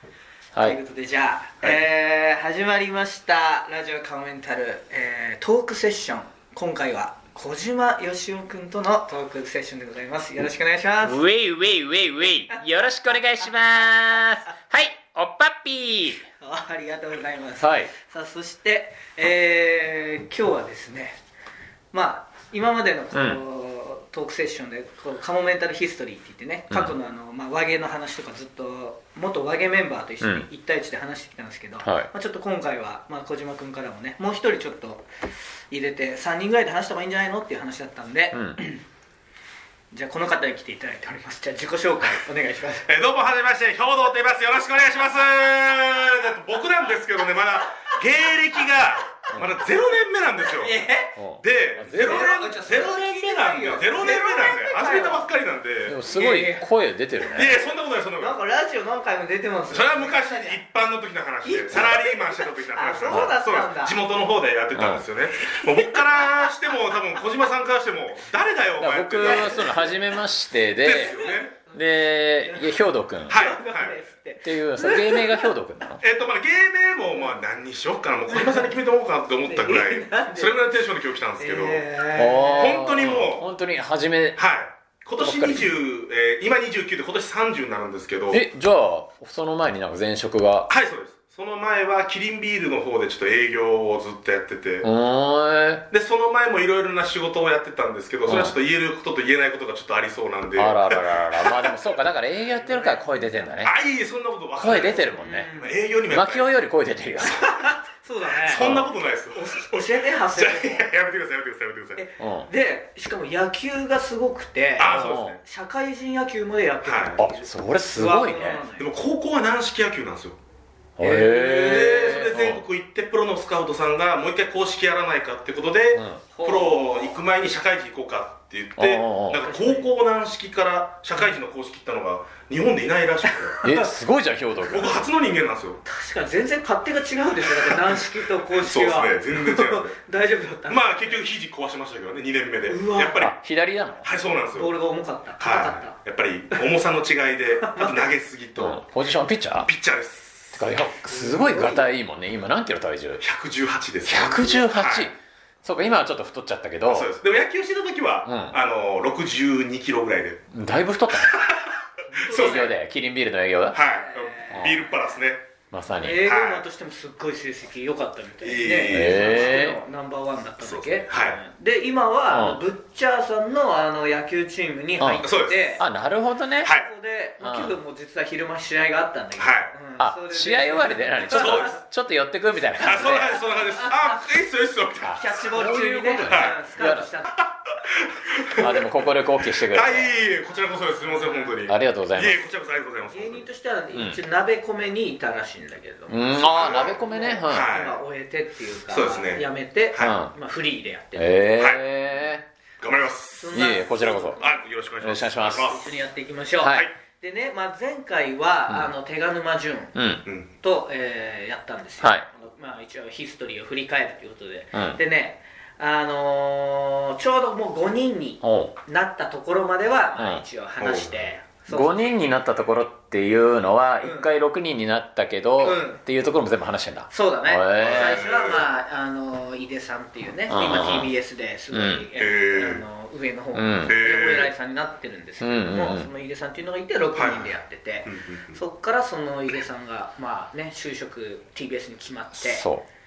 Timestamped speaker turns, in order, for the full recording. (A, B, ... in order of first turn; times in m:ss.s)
0:00.6-0:11.2 A
0:11.0-0:16.2 B
0:16.4-0:21.2 A
0:17.6-0:17.9 B
0:21.9-0:35.1 A
0:23.1-0:23.4 B
0:26.7-0:26.9 B
0:30.2-0:30.5 B
0:31.8-0:32.1 B
0:35.7-0:38.8 A
0:38.3-0:38.6 B
0:39.9-0:42.9 A
0:42.8-0:50.9 C
0:49.3-0:49.6 B
0:50.5-0:51.2 A
0:51.2-0:52.3 B
0:51.4-0:56.0 C
0:52.0-0:55.3 A
0:55.8-0:57.6 B
0:56.0-0:56.6 A
0:57.3-0:58.4 C
0:58.2-1:00.6 A
0:59.7-1:09.9 C
1:01.4-1:04.0 A
1:03.1-1:03.4 B
1:04.7-1:05.0 B
1:05.7-1:06.5 A
1:08.8-1:11.2 B
1:09.2-1:09.9 A
1:10.8-1:11.6 C
1:10.9-1:15.5 A
1:11.7-1:13.4 B
1:13.3-1:14.0 C
1:14.4-1:16.0 B
1:16.0-1:21.9 C
1:18.3-1:18.8 A
1:19.4-1:20.7 A
1:21.4-1:22.8 A
1:22.1-1:24.4 B
1:22.6-1:23.5 C
1:24.4-1:28.4 C
1:25.2-1:25.7 B
1:28.3-1:30.7 B
1:30.7-1:34.9 C
1:34.8-1:35.8 B
1:35.9-1:41.7 C
1:38.2-1:38.6 B
1:40.6-1:43.7 B
1:42.6-1:43.0 A
1:43.6-1:46.5 C
1:44.6-1:45.5 B
1:44.6-1:45.8 A
1:46.1-1:47.4 B
1:47.2-1:48.8 A
1:48.4-1:52.0 C
1:48.6-1:48.9 B
1:49.3-1:50.8 A
1:52.0-1:58.8 A
1:52.2-1:52.5 B
1:54.8-1:55.4 C
1:54.8-1:55.4 B
1:56.8-1:57.2 C
1:57.2-1:58.6 B
1:58.7-2:00.4 C
2:01.0-2:02.6 B
2:01.0-2:02.2 A
2:01.4-2:13.6 C
2:05.9-2:06.2 B
2:06.3-2:07.1 A
2:08.8-2:09.4 B
2:09.4-2:09.9 A
2:13.3-2:13.9 A
2:13.6-2:15.0 B
2:14.6-2:15.8 C
2:15.8-2:21.2 A
2:17.6-2:20.0 C
2:20.7-2:23.4 C
2:22.6-2:23.3 A
2:23.2-2:24.1 B
2:24.0-2:24.7 C
2:24.4-2:26.0 A
2:25.4-2:28.9 C
2:27.6-2:28.1 A
2:28.6-2:29.7 B
2:29.6-2:30.7 C
2:30.5-2:33.2 B
2:31.1-2:31.8 A
2:33.2-2:35.1 C
2:34.0-2:37.1 B
2:36.9-2:40.4 C
2:38.2-2:38.6 B
2:40.5-2:41.4 B
2:41.3-2:41.7 C
2:42.1-2:42.7 A
2:42.2-2:42.7 C
2:42.3-2:43.8 B
2:43.7-2:45.5 C
2:43.8-2:45.2 A
2:44.5-2:44.8 B
2:45.7-2:46.2 B
2:46.0-2:55.8 A
2:46.2-2:46.6 C
2:48.4-2:49.6 C
2:48.9-2:49.8 B
2:50.6-2:51.4 C
2:52.3-2:52.6 B
2:55.0-2:56.7 B
2:55.2-2:55.8 C
2:56.6-3:01.8 A
2:57.4-2:57.8 B
2:59.4-2:59.7 C
3:00.0-3:03.4 B
3:01.3-3:01.8 C
3:02.8-3:05.4 C
3:02.8-3:04.2 A
3:05.0-3:07.1 B
3:05.0-3:07.3 A
3:06.2-3:06.6 C
3:07.4-3:08.8 C
3:08.6-3:10.1 B
3:09.6-3:13.5 C
3:10.5-3:11.5 A
3:11.6-3:12.4 B
3:13.1-3:21.4 A
3:13.9-3:14.2 B
3:16.1-3:17.7 B
3:16.4-3:18.0 C
3:18.9-3:20.2 C
3:20.0-3:20.3 B
3:21.2-3:22.4 B
3:21.6-3:21.8 C
3:22.8-3:23.6 C
3:23.3-3:24.6 A
3:23.5-3:24.4 B
3:24.4-3:26.0 C
3:25.0-3:25.8 B
3:25.5-3:30.0 A
3:26.6-3:26.9 B
3:28.7-3:28.9 B
3:29.9-3:30.2 B
3:30.2-3:30.5 C
3:30.6-3:42.3 A
3:32.0-3:32.3 B
3:34.7-3:35.0 B
3:38.4-3:38.7 B
3:40.2-3:40.4 B
3:40.8-3:41.3 C
3:41.7-3:48.2 B
3:44.0-3:44.3 A
3:45.6-3:46.0 A
3:47.1-4:02.6 A
3:47.8-3:48.6 C
3:50.5-3:51.1 B
3:51.7-3:52.1 B
3:52.1-3:52.8 C
3:53.5-3:54.0 B
3:53.8-3:54.5 C
3:55.4-3:56.1 B
3:57.1-3:58.6 C
4:02.3-4:02.8 B